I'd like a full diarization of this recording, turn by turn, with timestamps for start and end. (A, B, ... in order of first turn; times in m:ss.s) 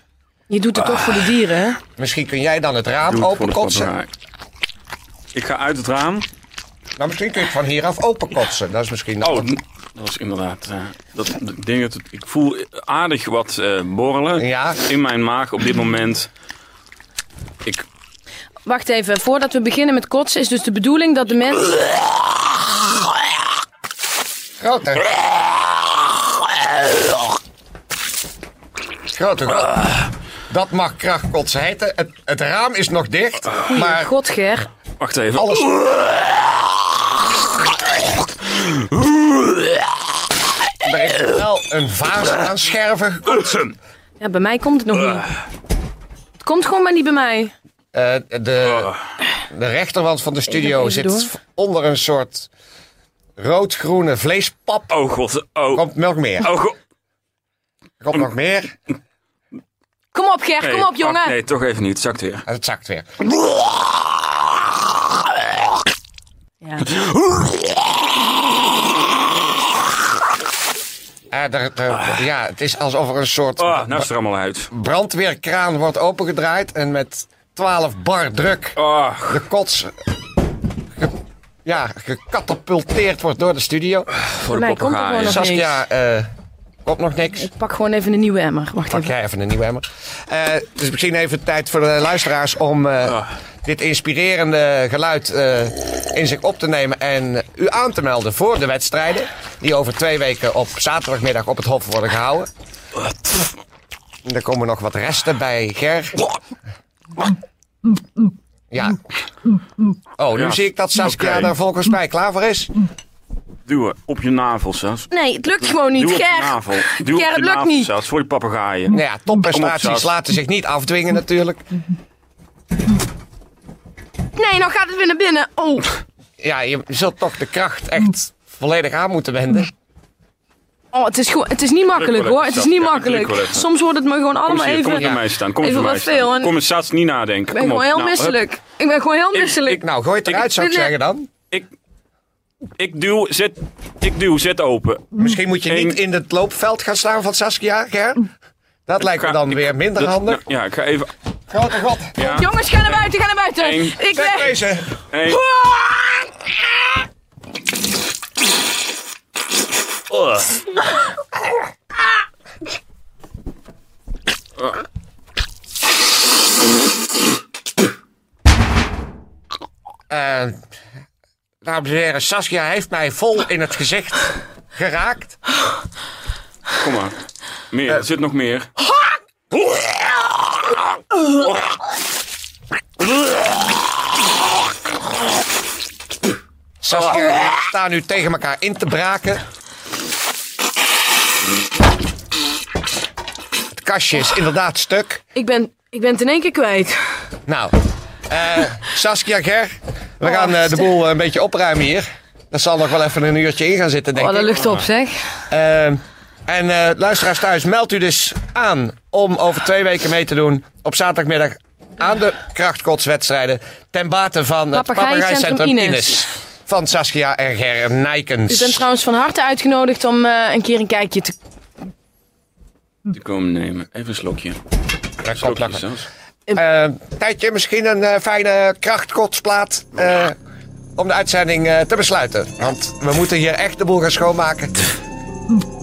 0:00.5-0:01.8 A
0:00.9-0:01.3 B
0:02.0-0:03.9 C
0:03.1-0:04.1 B
0:05.3-0:06.3 B
0:07.0-0:09.5 C
0:09.2-0:16.3 B
0:14.4-0:14.8 C
0:18.6-0:22.0 A
0:24.6-0:25.2 C
0:29.1-0:34.1 C
0:33.6-0:34.7 A
0:35.0-0:36.1 B
0:35.4-0:35.7 C
0:38.8-0:39.2 B
0:40.8-0:43.7 C
0:44.2-0:45.3 A
0:46.4-0:47.5 A
0:47.9-0:48.9 C
0:49.5-0:52.5 C
0:50.5-0:51.3 A
0:53.4-0:55.0 C
0:54.9-0:55.8 B
0:55.7-0:56.5 C
0:56.4-0:56.8 B
0:58.0-0:58.7 C
1:00.1-1:01.3 A
1:00.6-1:02.4 B
1:02.4-1:03.0 C
1:06.6-1:06.9 A
1:06.9-1:07.5 B
1:11.3-1:14.1 C
1:13.6-1:14.7 B
1:14.7-1:19.9 C
1:18.8-1:19.4 B
1:21.6-1:24.1 C
1:24.3-1:25.4 B
1:24.4-1:25.7 A
1:25.2-1:26.3 C
1:26.8-1:27.5 C
1:27.4-1:29.1 A
1:28.9-1:42.5 C
1:44.2-1:46.2 C
1:48.7-1:49.0 C
1:50.2-1:52.7 C
1:50.3-1:51.5 B
1:53.6-2:00.1 B
1:55.1-1:57.9 A
1:58.9-2:01.6 C
2:04.3-2:06.0 A
2:06.4-2:09.7 C
2:10.9-2:16.5 A
2:11.9-2:13.6 B
2:14.4-2:18.4 B
2:17.5-2:19.8 A
2:19.6-2:21.3 C
2:20.4-2:20.9 A
2:22.8-2:26.0 B
2:25.1-2:28.3 C
2:28.9-2:30.4 C
2:29.0-2:31.1 B
2:31.5-2:32.2 C
2:32.2-2:34.0 B
2:32.2-2:34.6 A
2:34.1-2:34.9 C
2:35.1-2:35.4 B
2:35.3-2:35.8 A
2:40.1-2:40.5 B
2:50.1-2:50.6 C
2:51.6-2:55.4 C
2:56.8-2:57.2 B
2:57.7-2:58.7 B
3:06.8-3:09.4 C
3:13.7-3:15.2 C
3:15.3-3:17.3 A
3:17.5-3:17.7 C
3:18.3-3:24.5 C
3:20.2-3:20.9 A
3:24.1-3:25.4 A
3:25.5-3:38.8 C
3:34.7-3:36.2 A
3:38.5-3:41.3 A
3:43.1-3:44.6 B
3:45.2-3:45.8 C
3:45.2-3:46.1 B
3:46.5-3:50.4 C
3:51.0-3:54.8 C